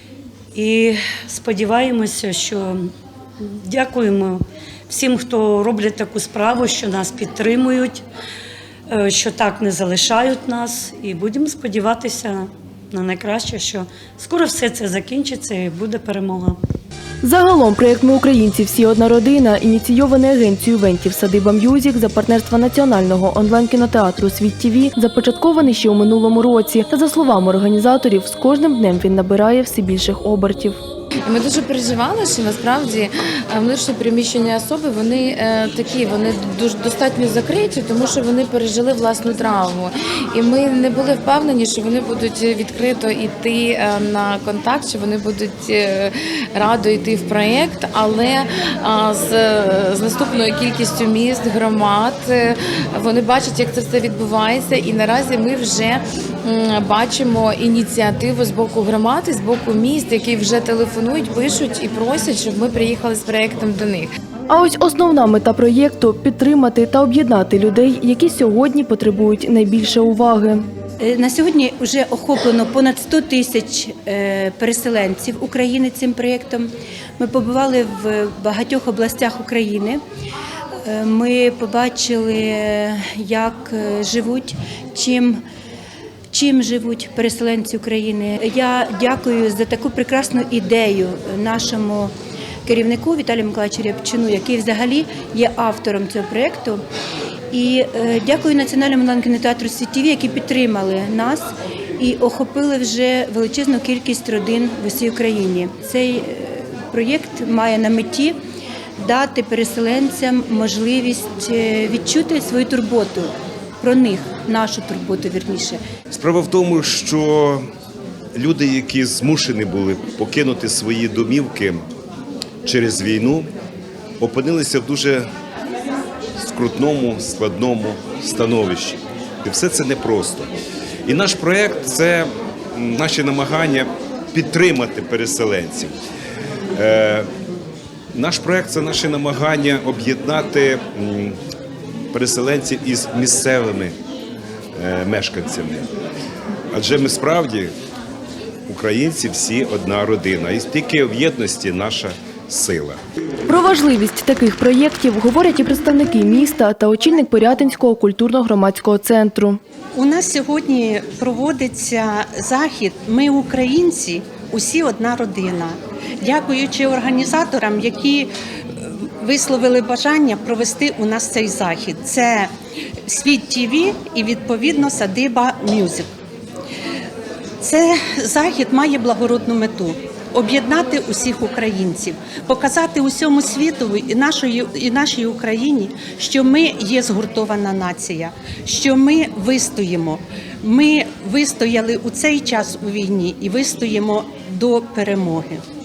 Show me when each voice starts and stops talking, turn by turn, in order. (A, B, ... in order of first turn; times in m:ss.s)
0:00.5-0:08.0 A
0:08.9-0:16.6 A
0:17.2-0:30.8 B
0:31.2-1:04.1 C
1:04.5-1:10.6 B
1:11.0-1:20.0 D
1:20.8-1:25.4 D
1:26.3-1:32.1 D
1:32.6-1:36.8 D
1:37.5-1:48.4 D
1:49.0-1:55.8 D
1:56.1-1:57.6 E
1:58.3-2:01.9 E
2:02.6-2:03.5 E
2:04.2-2:05.3 E
2:06.4-2:10.5 E
2:11.0-2:15.9 E
2:16.7-2:17.3 E
2:18.1-2:21.4 E
2:22.1-2:23.9 E
2:24.8-2:25.9 E
2:26.7-2:27.7 E
2:28.7-2:33.0 E
2:33.5-2:39.6 B
2:39.9-2:52.5 F
2:53.0-2:56.1 F
2:57.6-3:15.6 F